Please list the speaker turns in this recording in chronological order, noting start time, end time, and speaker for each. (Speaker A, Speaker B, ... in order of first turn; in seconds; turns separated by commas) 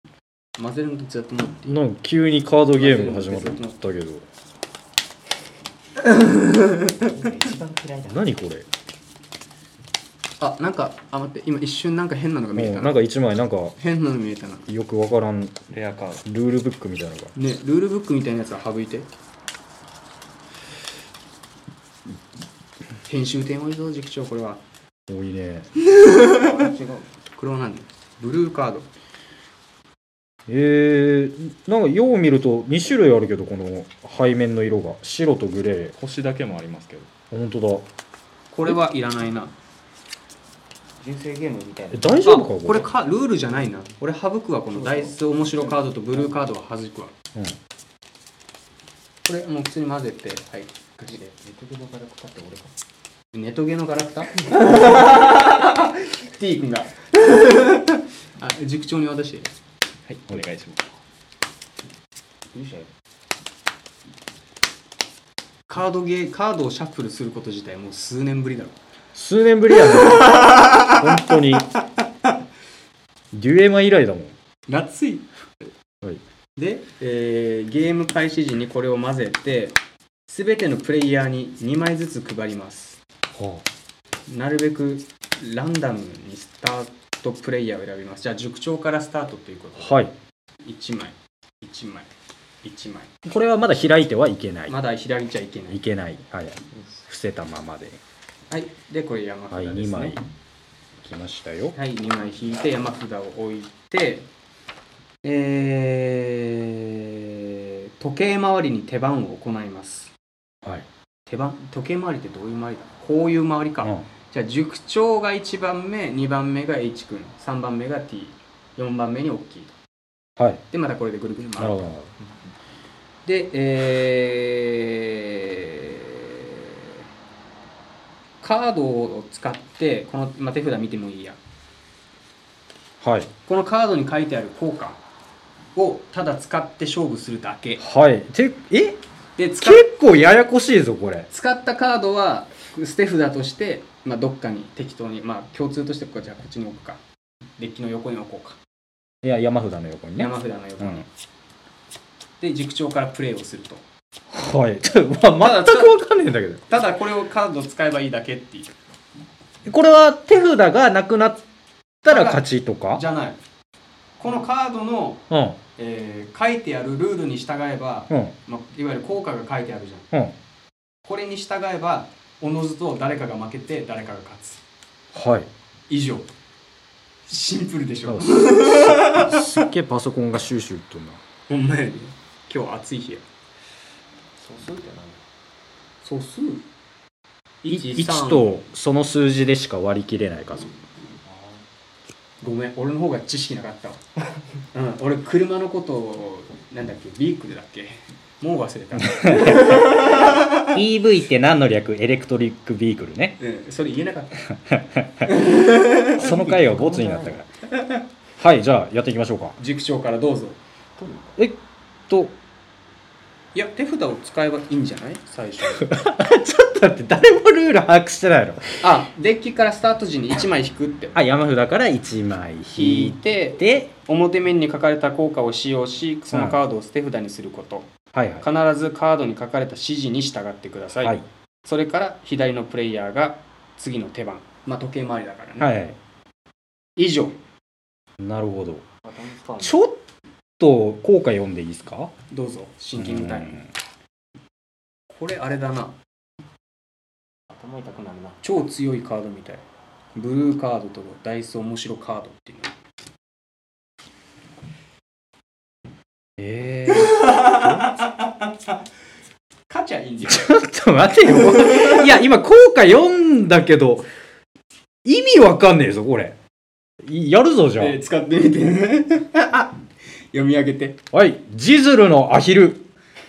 Speaker A: 0.6-1.8, Speaker B: 1.7-4.2, Speaker A: 2.8-3.8, Speaker A: 6.0-6.9, Speaker C: 7.0-8.2, Speaker B: 8.1-8.7, Speaker A: 10.4-13.0, Speaker B: 12.6-13.8, Speaker A: 13.8-14.7, Speaker B: 14.7-15.6, Speaker D: 15.7-16.2, Speaker B: 16.2-17.3, Speaker A: 17.4-19.1, Speaker A: 23.1-24.6, Speaker B: 25.1-25.7, Speaker A: 25.8-26.5, Speaker C: 26.3-27.1, Speaker A: 27.4-28.9, Speaker B: 30.5-36.0, Speaker D: 36.0-37.1, Speaker B: 37.3-37.9, Speaker A: 38.5-39.5, Speaker C: 41.0-42.2, Speaker B: 41.9-42.9, Speaker A: 42.2-47.1, Speaker C: 44.7-46.4, Speaker A: 49.2-51.3, Speaker C: 51.1-52.7, Speaker A: 53.3-59.5, Speaker D: 60.1-60.9, Speaker C: 62.5-62.9, Speaker A: 65.7-68.8, Speaker B: 69.2-71.7, Speaker A: 69.8-71.1, Speaker B: 73.3-74.3, Speaker A: 74.7-75.3, Speaker A: 76.6-79.8, Speaker A: 80.3-83.0, Speaker B: 83.3-83.7, Speaker A: 84.3-90.1, Speaker B: 89.8-90.1, Speaker A: 90.6-92.1, Speaker A: 92.6-93.1, Speaker B: 93.2-94.8, Speaker A: 94.7-95.8, Speaker B: 95.7-98.0, Speaker A: 98.5-100.2, Speaker B: 99.5-100.2, Speaker B: 101.0-101.8, Speaker A: 101.7-104.3, Speaker A: 105.2-110.1, Speaker A: 111.3-119.8, Speaker A: 120.7-121.9, Speaker B: 121.6-122.1, Speaker A: 123.3-126.9, Speaker A: 128.4-131.4, Speaker B: 133.0-133.3, Speaker A: 133.5-135.0, Speaker A: 135.8-137.8, Speaker B: 137.8-139.0, Speaker A: 139.4-139.9, Speaker B: 139.6-141.3, Speaker A: 141.3-147.0, Speaker A: 147.6-148.6, Speaker B: 149.2-151.0, Speaker A: 150.2-151.1, Speaker A: 152.4-153.8, Speaker B: 154.3-156.7, Speaker A: 155.4-156.0, Speaker A: 156.7-158.7, Speaker B: 159.7-161.4, Speaker A: 162.1-163.4, Speaker B: 162.1-163.0, Speaker A: 164.2-165.2, Speaker B: 165.3-165.6, Speaker A: 165.8-170.1, Speaker A: 171.0-174.6, Speaker B: 175.1-175.5, Speaker A: 175.9-176.3, Speaker A: 177.3-179.5, Speaker B: 178.1-181.2, Speaker A: 181.5-183.2, Speaker C: 184.4-185.2, Speaker A: 186.0-186.7, Speaker A: 187.6-188.6, Speaker B: 187.7-190.7, Speaker C: 191.2-191.7, Speaker A: 192.4-194.0, Speaker A: 194.7-200.7, Speaker B: 199.0-203.4, Speaker A: 203.4-204.4, Speaker B: 204.5-205.3, Speaker A: 205.2-206.3, Speaker B: 206.2-207.5, Speaker C: 206.2-207.4, Speaker B: 208.4-209.6, Speaker A: 209.6-210.6, Speaker C: 211.0-211.3, Speaker B: 212.1-212.3, Speaker A: 213.6-215.9, Speaker B: 215.8-218.8, Speaker A: 218.8-221.2, Speaker B: 221.2-223.9, Speaker A: 222.8-227.9, Speaker B: 226.3-226.6, Speaker B: 228.1-228.4, Speaker A: 228.4-235.7, Speaker B: 235.6-236.0, Speaker A: 237.0-237.4, Speaker B: 238.2-238.8, Speaker C: 239.0-239.8, Speaker B: 239.6-240.0, Speaker B: 240.6-242.1, Speaker A: 242.3-243.6, Speaker B: 243.0-243.7, Speaker A: 245.1-246.0, Speaker C: 247.5-248.4, Speaker A: 248.4-249.6, Speaker A: 250.2-252.7, Speaker B: 256.4-257.9, Speaker A: 256.9-258.8, Speaker A: 259.7-260.5, Speaker B: 260.3-264.1, Speaker A: 261.3-262.1, Speaker B: 265.1-266.4, Speaker B: 267.0-268.0, Speaker A: 267.8-269.8, Speaker A: 270.3-271.0, Speaker B: 271.1-272.8